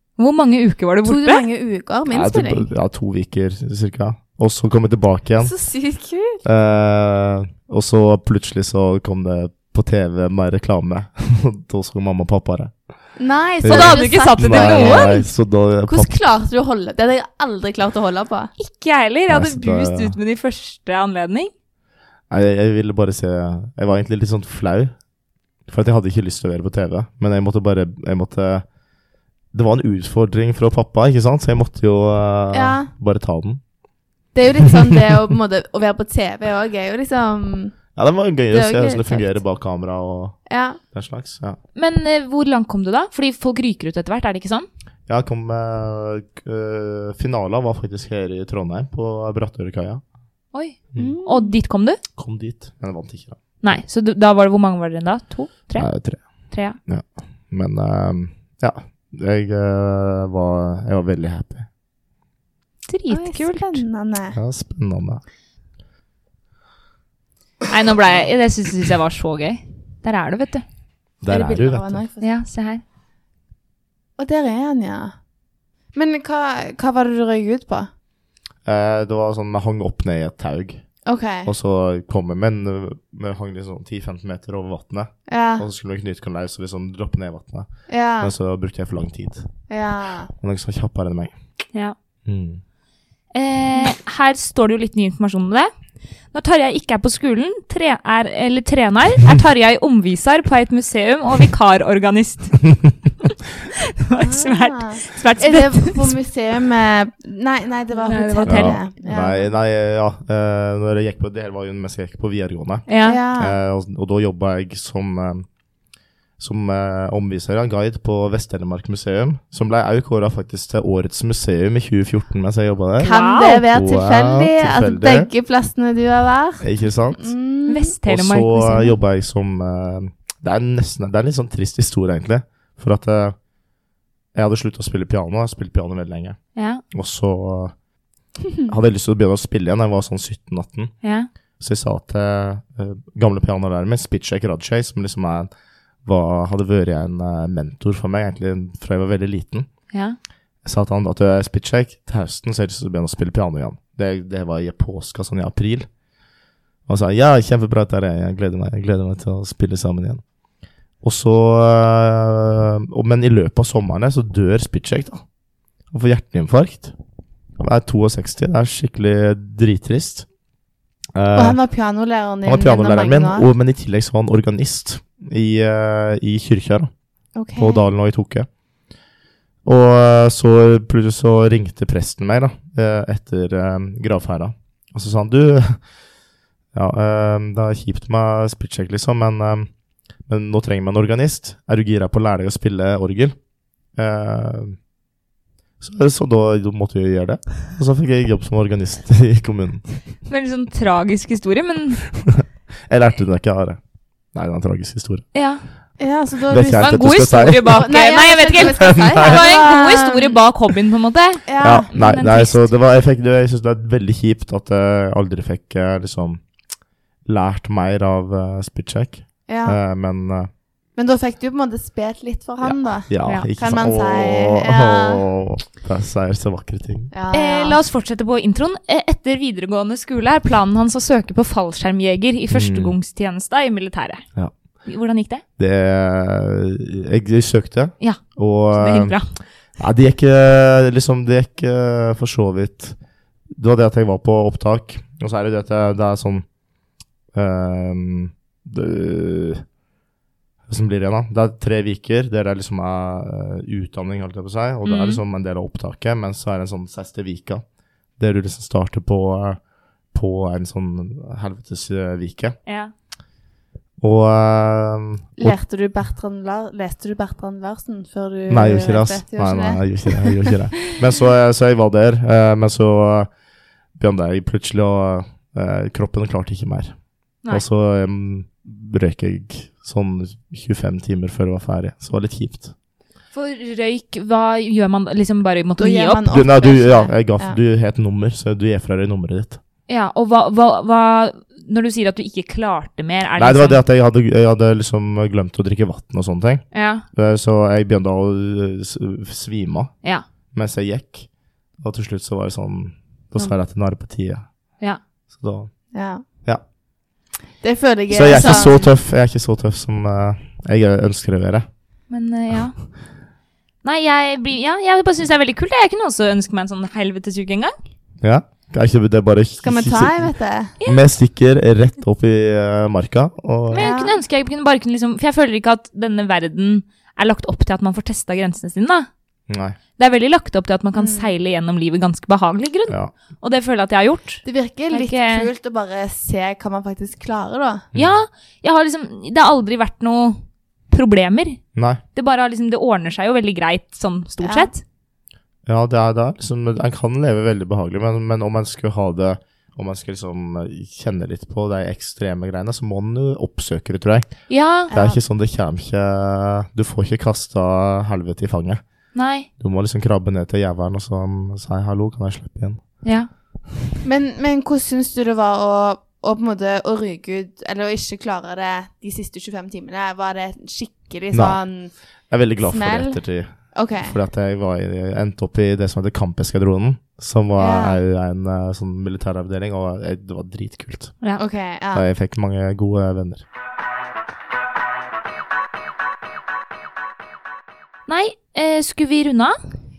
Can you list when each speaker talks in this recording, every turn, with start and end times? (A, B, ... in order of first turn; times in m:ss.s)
0:00.2-0:01.4 A
0:01.0-0:02.7 B
0:02.1-0:05.5 C
0:05.4-0:06.4 B
0:06.4-0:12.7 C
0:13.2-0:15.3 B
0:13.6-0:16.1 C
0:13.6-0:15.1 A
0:15.8-0:18.5 B
0:18.6-0:21.5 A
0:19.3-0:20.2 C
0:22.3-0:24.9 C
0:25.7-0:28.6 C
0:29.5-0:33.6 C
0:32.5-0:32.9 B
0:34.3-0:37.8 B
0:34.6-0:35.0 C
0:38.0-0:41.6 C
0:38.5-0:39.4 B
0:40.5-0:40.8 B
0:41.8-0:44.7 A
0:45.1-0:50.0 C
0:50.5-0:52.0 A
0:51.0-0:51.6 B
0:52.2-0:53.4 C
0:53.6-0:56.8 A
0:55.8-0:56.3 C
0:56.8-1:01.7 C
1:02.9-1:03.8 A
1:03.1-1:04.4 B
1:04.3-1:05.2 C
1:07.7-1:10.6 A
1:11.2-1:12.0 C
1:11.3-1:12.3 B
1:12.2-1:12.8 A
1:14.2-1:15.1 B
1:15.9-1:17.9 B
1:18.6-1:20.8 C
1:21.0-1:21.5 B
1:21.4-1:27.7 C
1:25.3-1:25.6 B
1:27.9-1:28.3 B
1:28.2-1:29.5 C
1:29.7-1:30.3 B
1:30.4-1:31.3 C
1:32.2-1:32.6 C
1:33.3-1:35.7 A
1:36.3-1:42.6 A
1:43.2-1:46.1 A
1:44.2-1:49.4 B
1:48.0-1:48.8 A
1:48.4-1:55.4 C
1:52.9-1:53.2 A
1:53.0-1:53.6 B
1:56.4-2:03.1 C
2:03.0-2:07.9 B
2:03.0-2:03.6 A
2:03.7-2:05.3 C
2:06.6-2:07.3 C
2:07.7-2:08.9 A
2:08.0-2:13.4 C
2:14.3-2:16.4 C
2:16.5-2:16.8 A
2:16.9-2:17.7 C
2:18.6-2:20.9 C
2:21.0-2:21.3 A
2:21.6-2:25.5 C
2:26.0-2:29.7 C
2:29.9-2:30.2 A
2:30.6-2:35.9 C
2:36.9-2:40.2 C
2:41.0-2:45.2 C
2:45.9-2:46.9 C
2:47.6-2:50.2 C
2:51.1-2:51.6 C
2:51.3-2:53.5 B
2:52.4-2:56.9 C
2:57.4-2:57.8 B
2:57.6-2:58.5 C
2:59.6-3:05.8 C
3:06.7-3:09.7 C
3:10.3-3:13.4 C
3:14.0-3:14.8 C
3:15.8-3:19.8 C
3:20.3-3:22.0 A
3:22.1-3:23.8 C
3:24.3-3:25.2 C
3:25.3-3:25.6 A
3:26.0-3:30.4 B
3:26.5-3:28.0 C
3:26.7-3:32.7 A
3:28.6-3:29.4 C
3:31.5-3:31.9 B
3:31.6-3:36.4 C
3:37.2-3:40.5 C
3:39.5-3:39.8 B
3:41.0-3:45.2 B
3:42.6-3:47.1 C
3:47.1-3:47.8 B
3:47.3-3:54.3 A
3:52.5-3:53.0 C
3:54.8-3:55.4 A
3:55.6-3:59.2 C
3:58.0-3:59.4 A
3:59.7-4:03.0 C
4:03.5-4:06.4 C
4:07.3-4:09.6 C
4:10.7-4:17.6 C
4:14.8-4:15.2 A
4:18.2-4:19.6 C
4:20.1-4:22.6 C
4:22.6-4:22.9 A
4:24.0-4:25.6 C
4:25.4-4:31.0 B
4:28.5-4:33.3 C
4:34.0-4:37.0 C
4:37.5-4:42.7 C
4:43.3-4:46.3 A
4:45.8-4:47.6 B
4:46.3-4:49.6 C
4:49.9-4:53.8 A
4:53.4-4:59.9 C
4:56.7-4:57.0 A
5:00.5-5:01.3 C
5:01.8-5:04.4 C
5:05.3-5:05.7 C
5:05.9-5:06.2 B
5:07.6-5:08.8 B
5:08.1-5:11.6 C
5:08.2-5:08.9 A
5:12.1-5:12.8 A
5:13.8-5:17.7 A
5:18.2-5:20.3 C
5:19.6-5:20.7 B
5:20.8-5:23.9 C
5:23.7-5:29.1 A
5:23.7-5:24.2 B
5:29.5-5:29.8 C
5:30.0-5:35.5 A
5:31.0-5:31.3 B
5:34.4-5:37.8 B
5:37.9-5:38.2 C
5:37.9-5:41.6 A
5:41.7-5:42.0 C
5:42.1-5:44.8 A
5:44.4-5:44.7 B
5:45.6-5:58.8 C
5:54.5-5:54.9 A
5:54.9-5:55.2 B
5:59.1-5:59.5 A
5:59.6-6:02.8 C
6:03.0-6:03.3 A
6:04.0-6:11.9 B
6:11.3-6:11.6 C
6:12.3-6:21.2 C
6:12.6-6:13.2 B
6:13.7-6:14.2 B
6:17.6-6:18.0 B
6:21.4-6:22.0 B
6:21.9-6:23.4 C
6:28.1-6:29.6 A